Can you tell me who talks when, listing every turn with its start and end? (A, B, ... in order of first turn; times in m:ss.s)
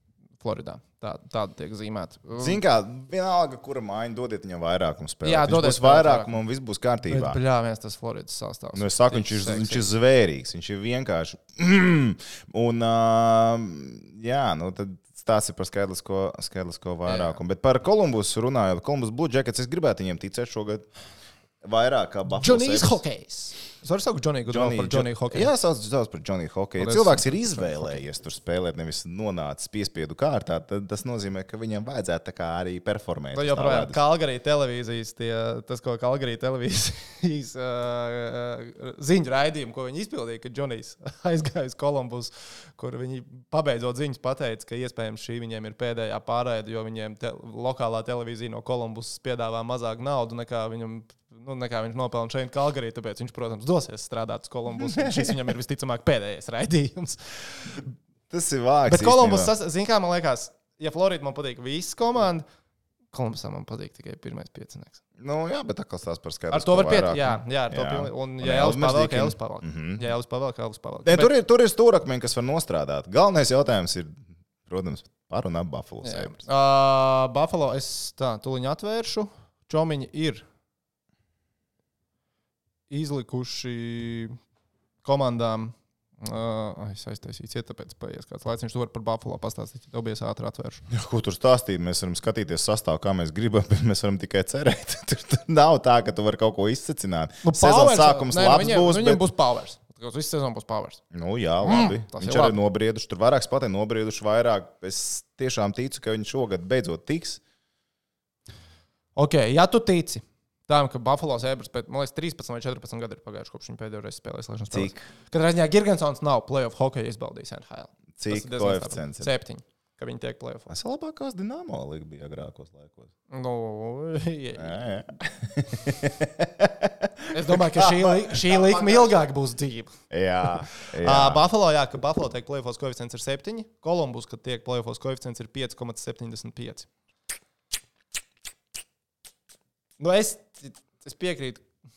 0:00.4-0:02.6 A
0:02.4-0:07.4 B
0:05.2-0:06.4 A
0:07.0-0:09.8 A
0:08.7-0:20.9 B
0:17.0-0:17.4 A
0:21.6-0:23.0 B
0:22.3-0:25.5 A
0:24.5-0:34.0 B
0:26.8-0:28.0 A
0:33.3-0:57.8 A
0:54.8-0:55.3 B
0:58.3-0:59.5 B
0:58.9-1:02.4 A
1:03.1-1:05.0 A
1:05.2-1:10.0 B
1:06.5-1:11.3 A
1:11.0-1:16.4 B
1:16.0-1:20.4 A
1:22.9-1:24.4 A
1:25.0-1:30.9 A
1:30.9-1:39.2 B
1:37.4-1:41.0 A
1:41.1-1:47.4 B
1:41.6-1:42.6 A
1:49.2-2:00.7 A
1:54.7-1:55.0 B
1:58.2-1:59.3 B
2:00.7-2:03.1 B
2:03.3-2:04.8 A
2:04.6-2:09.2 B
2:07.3-2:16.9 A
2:10.1-2:11.4 B
2:20.0-2:21.6 A